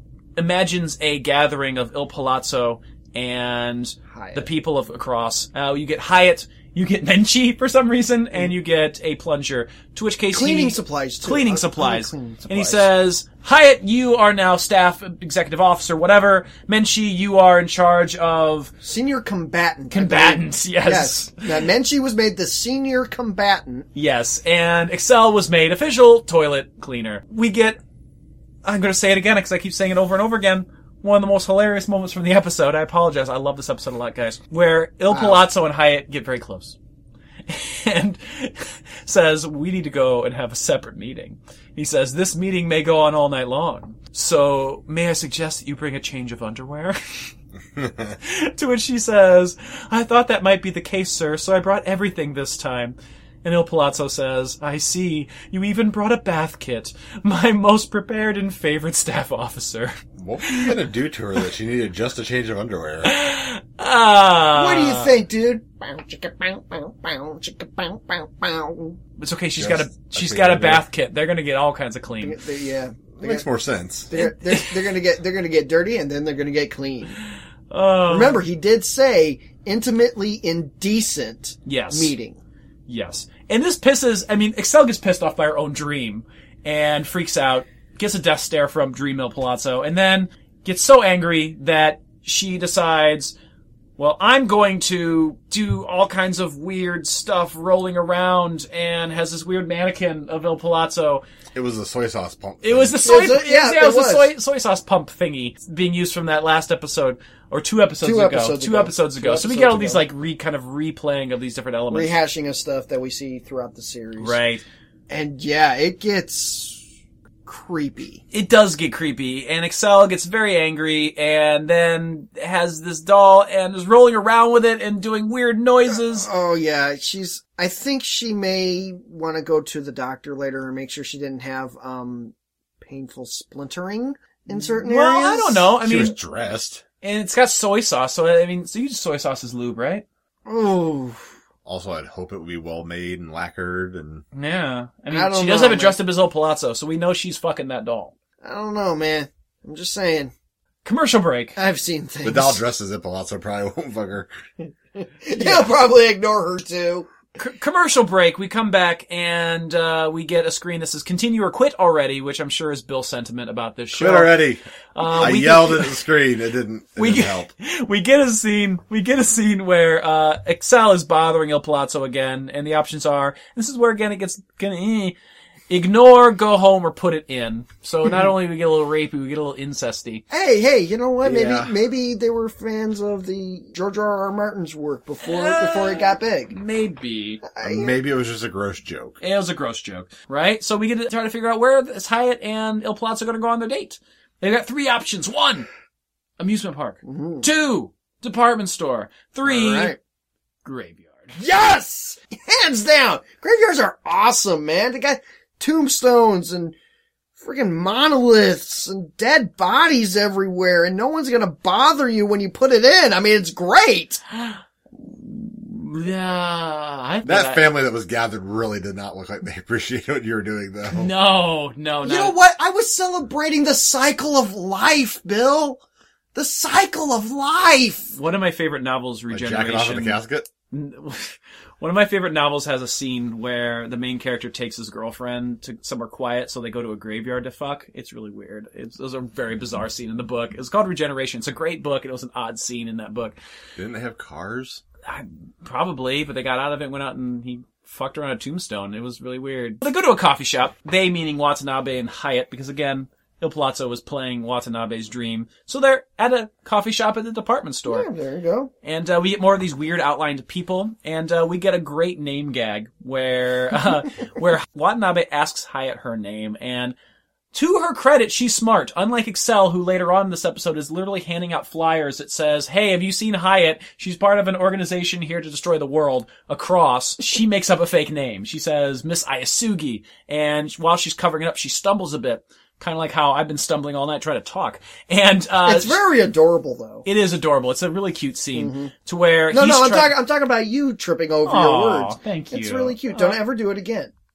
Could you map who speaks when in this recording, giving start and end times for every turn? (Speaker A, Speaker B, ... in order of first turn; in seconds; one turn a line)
Speaker A: 0.4-18.7
Speaker B: 4.1-4.5
Speaker B: 10.3-12.9
Speaker B: 18.8-23.9
Speaker A: 19.9-21.7
Speaker A: 23.9-27.8
Speaker A: 28.6-36.8
Speaker B: 35.1-35.5
Speaker A: 37.5-47.3
Speaker C: 47.8-48.1
Speaker A: 48.2-60.7
Speaker C: 60.2-63.1
Speaker A: 63.0-65.1
Speaker B: 64.5-69.0
Speaker A: 69.2-72.4
Speaker C: 69.6-70.8
Speaker B: 72.2-73.5
Speaker C: 73.1-74.1
Speaker B: 74.1-77.2
Speaker A: 74.2-74.9
Speaker A: 77.7-78.4
Speaker B: 78.1-82.4
Speaker A: 81.7-82.1
Speaker A: 82.9-93.3
Speaker A: 94.0-101.2
Speaker C: 101.5-103.0
Speaker A: 102.6-112.2
Speaker B: 103.0-104.3
Speaker B: 108.0-110.0
Speaker B: 111.9-114.4
Speaker A: 114.2-114.6
Speaker B: 115.1-116.8
Speaker B: 117.5-118.2
Speaker A: 118.3-126.3
Speaker B: 125.9-135.7
Speaker A: 134.5-136.2
Speaker C: 135.8-136.8
Speaker A: 137.0-140.1
Speaker B: 140.5-141.3
Speaker C: 141.7-144.2
Speaker A: 144.3-148.1
Speaker B: 145.1-146.0
Speaker B: 148.4-150.3
Speaker A: 150.8-151.6
Speaker B: 151.6-152.6
Speaker C: 152.2-154.3
Speaker B: 155.2-157.1
Speaker A: 155.4-155.7
Speaker A: 157.4-166.0
Speaker C: 163.9-167.5
Speaker A: 167.0-175.2
Speaker A: 175.7-180.2
Speaker B: 180.3-186.6
Speaker A: 181.2-181.7
Speaker A: 185.2-187.4
Speaker B: 187.4-188.0
Speaker C: 187.6-189.2
Speaker A: 189.2-195.7
Speaker A: 196.4-200.0
Speaker B: 197.1-197.5
Speaker B: 199.4-200.0
Speaker A: 200.7-201.4
Speaker B: 201.4-206.8
Speaker B: 207.4-214.2
Speaker A: 214.4-217.7
Speaker C: 217.2-221.1
Speaker A: 220.9-222.4
Speaker B: 222.0-225.8
Speaker B: 226.3-228.1
Speaker A: 228.1-230.2
Speaker C: 229.3-230.5
Speaker A: 230.7-243.4
Speaker C: 243.8-244.8
Speaker A: 245.1-258.1
Speaker B: 257.9-258.7
Speaker A: 258.8-267.0
Speaker A: 267.5-286.1
Speaker B: 285.6-287.1
Speaker A: 287.1-290.1
Speaker B: 288.5-288.9
Speaker B: 289.5-294.1
Speaker A: 291.4-293.4